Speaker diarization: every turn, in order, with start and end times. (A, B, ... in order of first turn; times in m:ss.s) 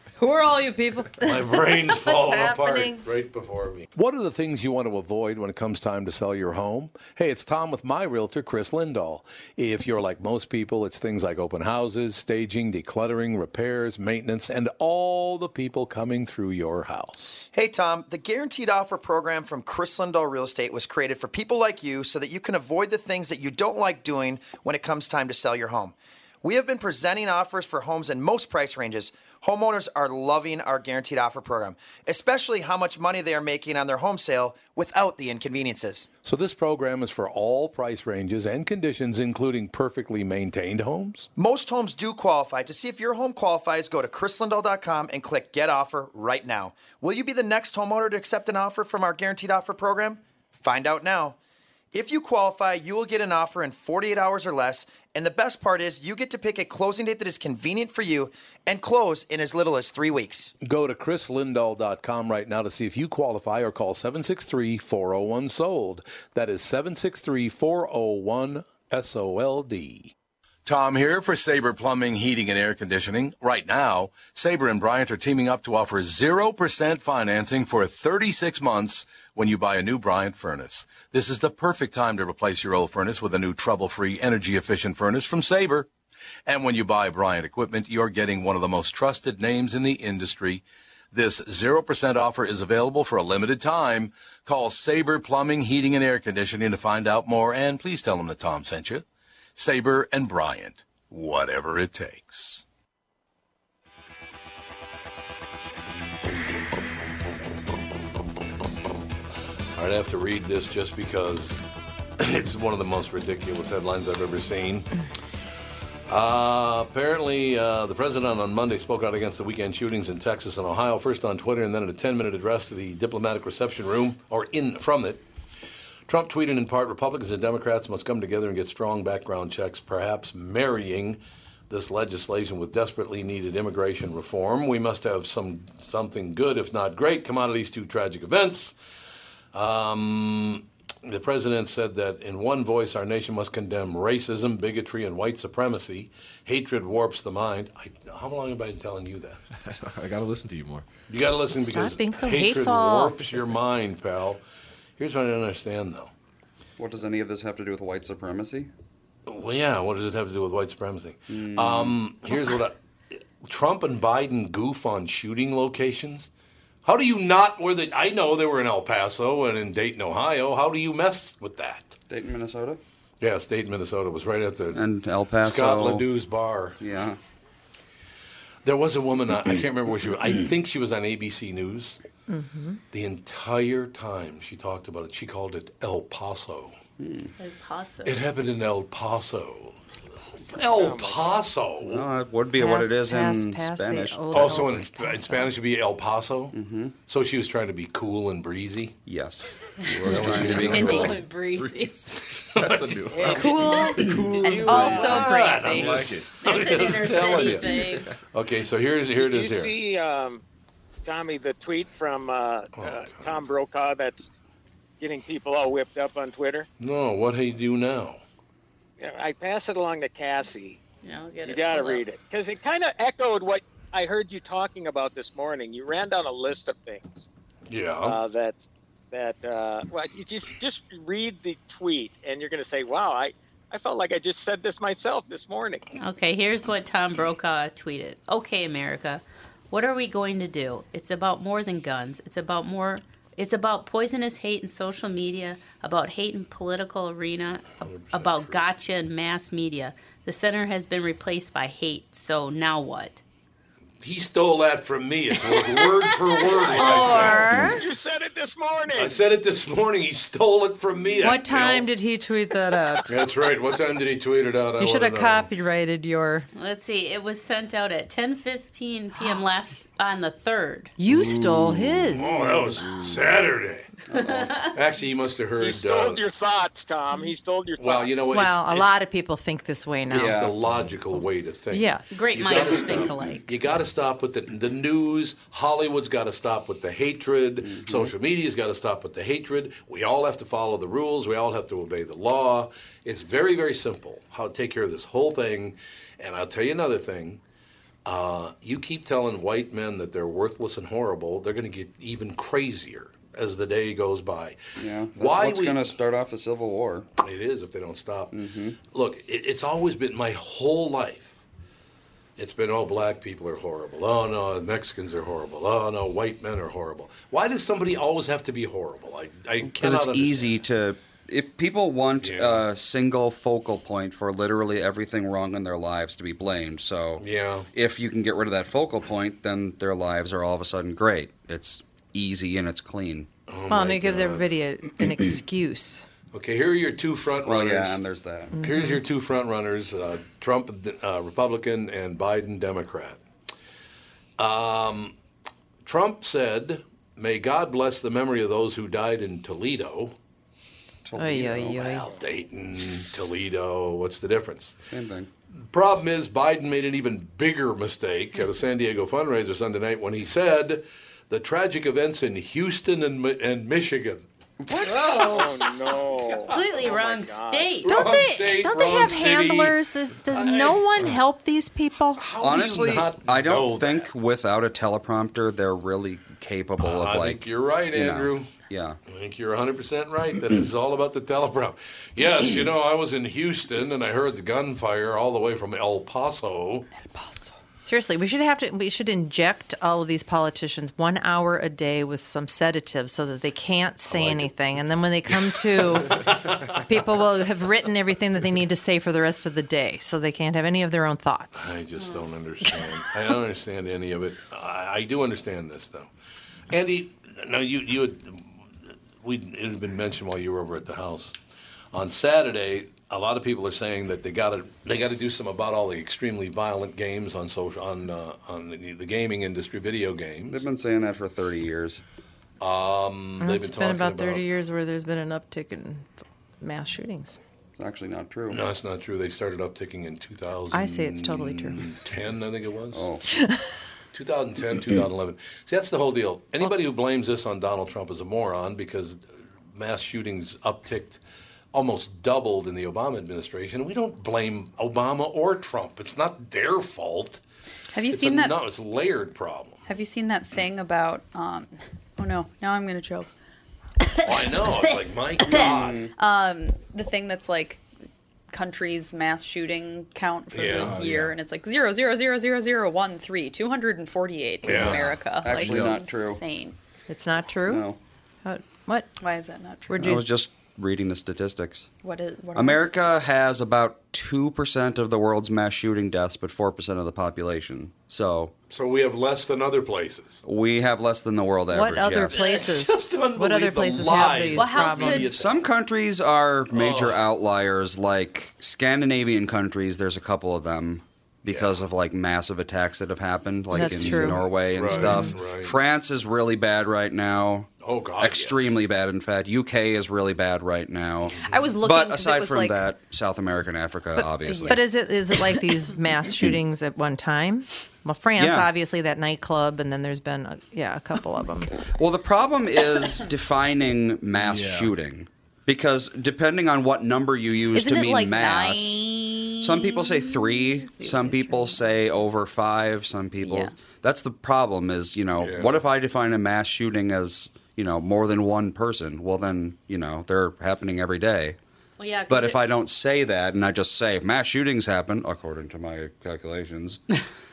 0:00.2-0:03.1 A
0:01.2-0:17.4 B
0:17.5-0:36.1 C
0:36.2-0:41.3 B
0:41.4-0:51.4 C
0:51.9-1:00.5 C
1:00.6-1:10.1 B
1:10.6-1:25.9 B
1:26.5-1:39.0 B
1:39.6-1:42.6 B
1:49.7-1:51.6 B
1:52.2-1:55.0 B
1:56.1-2:05.2 B
2:06.1-2:18.7 B
2:19.5-2:29.4 B
2:29.6-2:30.9 D
2:31.1-2:34.4 B
2:31.5-2:33.2 A
2:35.0-2:36.1 B
2:36.8-2:38.7 E
2:39.3-2:42.8 B
2:41.3-2:42.0 E
2:43.4-2:46.3 B
2:46.8-2:51.9 B
2:52.1-2:52.8 E
2:53.2-2:56.8 B
2:54.7-2:56.1 E
2:56.8-2:57.2 E
2:58.6-3:02.0 B
3:02.3-3:02.8 A
3:02.9-3:06.8 B
3:07.0-3:07.3 E
3:07.4-3:08.2 F
3:08.0-3:09.8 B
3:10.4-3:12.1 B
3:10.7-3:11.4 G
3:11.8-3:14.7 E
3:12.6-3:15.5 A
3:14.3-3:19.0 B
3:16.5-3:16.9 E
3:19.0-3:21.2 E
3:19.9-3:22.1 F
3:20.0-3:21.1 B
3:20.8-3:21.2 H
3:21.6-3:22.0 D
3:22.5-3:23.5 B
3:22.6-3:25.1 D
3:23.1-3:25.3 G
3:23.2-3:26.1 H
3:24.7-3:29.7 B
3:25.6-3:26.4 D
3:26.4-3:28.1 F
3:29.2-3:30.4 G
3:31.0-3:34.3 G
3:32.8-3:33.4 B
3:35.0-3:36.7 G
3:36.8-3:38.2 B
3:39.0-3:40.8 G
3:41.0-3:42.0 F
3:41.5-3:47.3 G
3:47.7-3:48.2 B
3:48.0-3:55.8 G
3:56.0-4:13.2 F
4:07.8-4:08.6 B
4:14.0-4:17.8 B
4:15.3-4:17.1 F
4:16.8-4:17.8 A
4:16.9-4:19.2 G
4:18.9-4:21.9 B
4:21.2-4:23.2 A
4:23.0-4:25.5 B
4:24.8-4:26.5 A
4:26.5-4:30.9 F
4:31.0-4:32.4 A
4:31.2-4:33.9 B
4:32.4-4:33.0 E
4:34.1-4:34.6 E
4:34.1-4:34.7 F
4:34.7-4:36.2 B
4:35.6-4:38.2 G
4:37.8-4:39.0 B
4:38.3-4:40.4 A
4:40.1-4:40.6 E
4:40.1-4:57.4 B
4:41.7-4:42.3 A
4:42.1-4:43.5 F
4:47.6-4:48.1 E
4:58.0-5:06.0 B
5:04.8-5:07.1 E
5:07.2-5:11.4 B
5:08.3-5:08.8 E
5:12.4-5:20.6 B
5:19.6-5:33.3 E
5:22.2-5:22.7 B
5:27.2-5:27.7 B
5:33.5-5:34.5 B
5:33.7-5:36.0 A
5:36.3-5:38.0 B
5:37.4-5:38.6 E
5:38.6-5:39.0 A
5:38.6-5:43.2 B
5:44.4-5:45.2 B
5:45.8-5:50.2 B
5:51.0-5:52.0 E
5:51.1-5:52.1 A
5:51.8-5:54.8 B
5:54.9-5:55.3 E
5:55.6-6:06.6 B
6:04.6-6:05.4 E
6:05.2-6:07.8 G
6:06.5-6:08.0 F
6:07.8-6:11.2 B
6:07.8-6:12.2 A
6:12.1-6:14.1 B
6:12.4-6:19.0 E
6:16.8-6:18.5 B
6:19.0-6:26.9 B
6:27.0-6:27.5 H
6:27.8-6:36.3 A
6:34.1-6:34.5 B
6:35.3-6:37.0 B
6:36.8-6:41.8 A
6:41.5-6:46.1 B
6:42.0-6:42.2 F
6:46.7-6:48.6 B
6:49.2-6:51.4 B
6:51.9-7:00.6 B
7:00.5-7:02.0 E
7:02.6-7:04.4 B
7:03.4-7:06.1 A
7:06.6-7:07.4 A
7:07.8-7:08.6 E
7:08.5-7:13.0 B
7:10.7-7:11.9 A
7:12.9-7:13.2 E
7:13.4-7:13.8 A
7:14.1-7:21.2 B
7:21.7-7:27.4 B
7:27.9-7:28.6 H
7:28.1-7:29.8 B
7:29.9-7:33.3 H
7:34.2-7:36.1 B
7:35.4-7:36.1 E
7:36.2-7:37.8 H
7:38.5-7:46.8 H
7:40.5-7:41.0 B
7:40.7-7:41.3 D
7:44.6-7:45.2 B
7:44.7-7:46.0 D
7:45.4-7:46.4 E
7:47.1-7:47.8 A
7:47.6-7:48.0 E
7:48.4-7:49.1 A
7:49.2-7:50.2 H
7:49.9-7:50.2 A
7:50.0-7:51.9 E
7:52.0-7:53.1 H
7:52.5-7:58.5 E
7:58.7-8:00.4 B
8:00.4-8:02.6 E
8:01.7-8:05.3 A
8:02.3-8:05.7 B
8:04.6-8:05.3 F
8:05.1-8:24.8 E
8:06.7-8:07.3 B
8:11.4-8:11.9 B
8:13.7-8:15.3 A
8:13.7-8:15.8 B
8:17.8-8:18.8 B
8:21.4-8:22.9 H
8:24.2-8:31.8 A
8:24.4-8:24.8 H
8:28.4-8:28.7 E
8:31.9-8:39.1 E
8:34.4-8:34.9 D
8:37.7-8:38.7 H
8:37.8-8:40.0 F
8:39.6-8:51.6 E
8:39.9-8:42.0 H
8:43.4-8:43.7 H
8:45.4-8:45.9 B
8:52.0-8:52.6 F
8:52.3-8:57.0 E